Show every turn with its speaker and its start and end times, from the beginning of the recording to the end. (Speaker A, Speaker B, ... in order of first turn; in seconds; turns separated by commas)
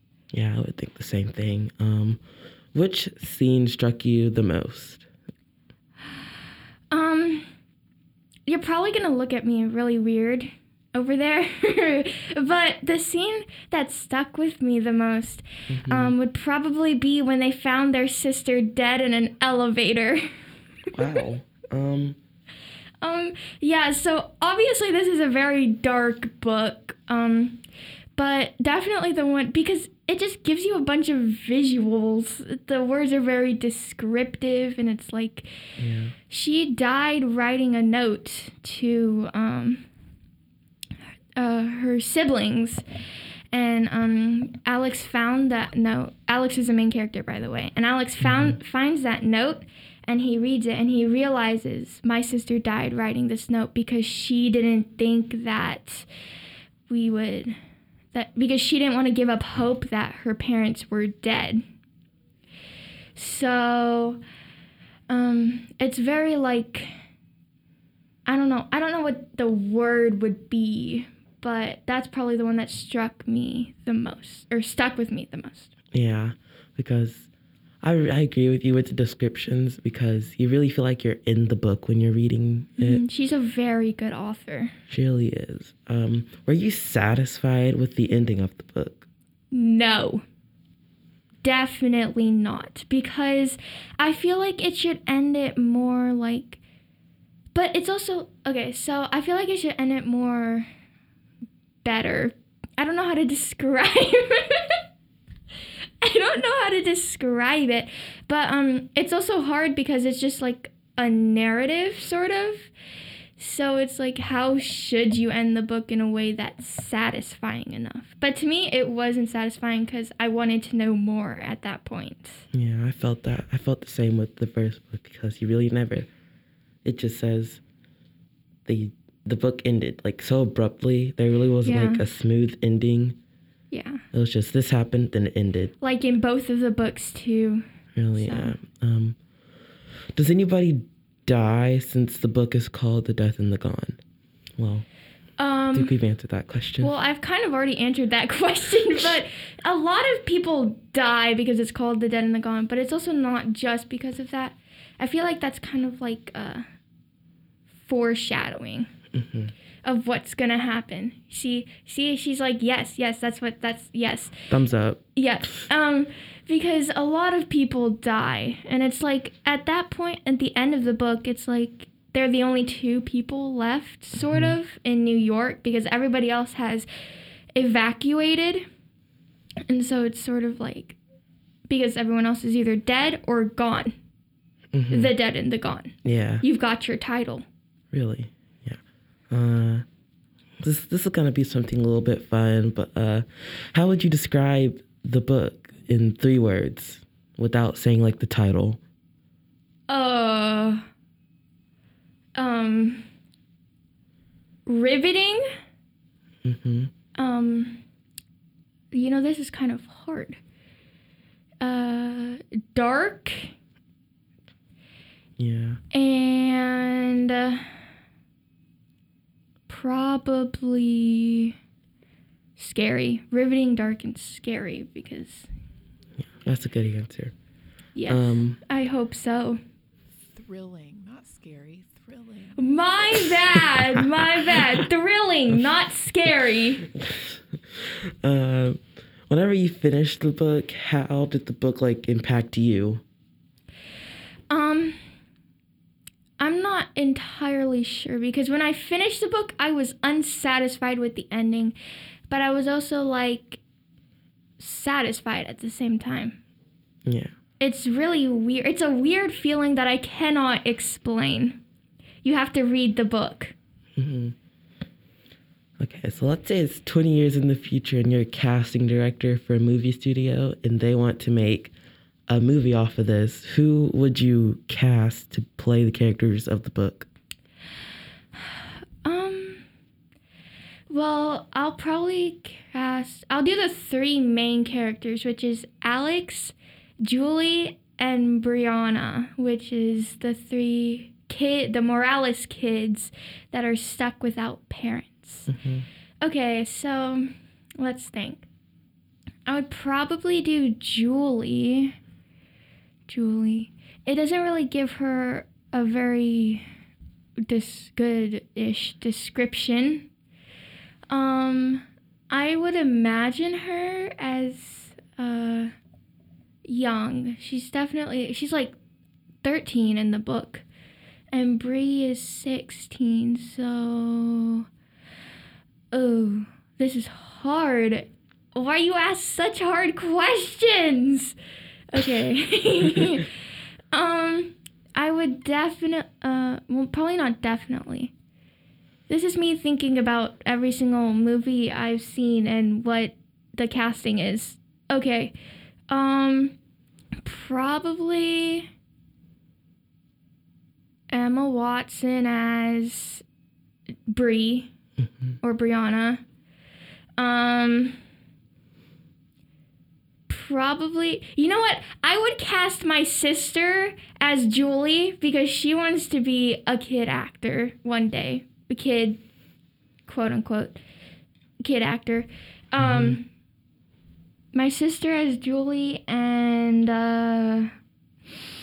Speaker A: 0.3-2.2, Speaker A: 2.7-5.1, Speaker B: 6.9-7.5, Speaker B: 8.5-20.3, Speaker A: 15.7-16.1, Speaker A: 21.0-22.2, Speaker B: 23.0-27.6, Speaker B: 28.2-35.5, Speaker A: 35.8-36.1, Speaker B: 36.3-39.9, Speaker B: 41.4-42.8, Speaker B: 43.5-56.1, Speaker A: 48.2-48.6, Speaker B: 56.9-57.5, Speaker B: 58.1-61.6, Speaker B: 63.2-64.2, Speaker B: 65.1-66.9, Speaker B: 68.3-75.7, Speaker A: 75.9-77.3, Speaker A: 77.8-83.0, Speaker B: 82.8-84.7, Speaker A: 84.9-89.0, Speaker B: 89.5-90.2, Speaker B: 91.4-96.6, Speaker B: 97.5-100.7, Speaker B: 101.8-104.8, Speaker B: 106.0-112.7, Speaker B: 113.4-122.5, Speaker A: 122.5-126.1, Speaker A: 126.8-127.6, Speaker A: 128.7-133.2, Speaker B: 131.7-132.0, Speaker B: 133.7-134.0, Speaker A: 134.1-135.7, Speaker B: 135.8-137.6, Speaker A: 137.9-139.2, Speaker B: 138.2-138.6, Speaker A: 140.2-144.0, Speaker A: 144.6-144.9, Speaker B: 145.4-145.9, Speaker A: 145.7-146.9, Speaker B: 146.8-156.6, Speaker B: 157.8-158.9, Speaker A: 159.2-159.5, Speaker B: 159.8-164.4, Speaker A: 164.5-165.0, Speaker B: 165.2-176.9, Speaker A: 174.2-174.6, Speaker B: 177.6-178.6, Speaker B: 179.7-181.0, Speaker B: 181.7-183.9, Speaker A: 184.7-185.1, Speaker B: 184.9-187.4, Speaker A: 186.1-186.4, Speaker A: 187.9-188.8, Speaker A: 189.3-189.8, Speaker A: 190.6-198.8, Speaker B: 199.9-200.8, Speaker B: 202.3-203.1, Speaker B: 204.7-205.4, Speaker A: 206.4-206.9, Speaker B: 207.2-207.8, Speaker B: 208.9-210.4, Speaker B: 211.6-213.5, Speaker A: 215.4-215.8, Speaker B: 215.9-217.7, Speaker B: 219.7-221.5, Speaker B: 222.6-225.5, Speaker A: 226.2-227.3, Speaker B: 227.9-229.6, Speaker A: 228.1-228.6, Speaker C: 230.4-232.6, Speaker B: 232.6-236.9, Speaker A: 236.9-243.0, Speaker B: 244.5-245.0, Speaker B: 246.4-251.8, Speaker B: 252.3-253.6, Speaker B: 254.6-256.4, Speaker B: 257.6-261.6, Speaker B: 262.2-263.6, Speaker A: 264.0-264.4, Speaker A: 265.8-271.7, Speaker A: 272.3-277.1, Speaker B: 278.4-279.6, Speaker B: 280.9-295.5, Speaker A: 295.5-295.9, Speaker B: 296.2-298.5, Speaker B: 299.5-302.0, Speaker B: 303.1-306.6, Speaker B: 307.5-310.1, Speaker B: 311.1-315.7, Speaker B: 316.7-318.8, Speaker B: 319.4-320.7, Speaker B: 321.3-324.7, Speaker B: 325.9-331.4, Speaker B: 331.9-333.3, Speaker B: 333.9-338.1, Speaker B: 339.1-345.4, Speaker B: 345.9-346.6, Speaker B: 347.2-348.7, Speaker B: 351.1-353.2, Speaker B: 354.1-354.7, Speaker B: 355.4-356.2, Speaker B: 357.2-358.0, Speaker B: 360.3-369.2, Speaker B: 370.1-370.8, Speaker B: 371.6-373.3, Speaker A: 372.8-373.2, Speaker B: 374.5-377.7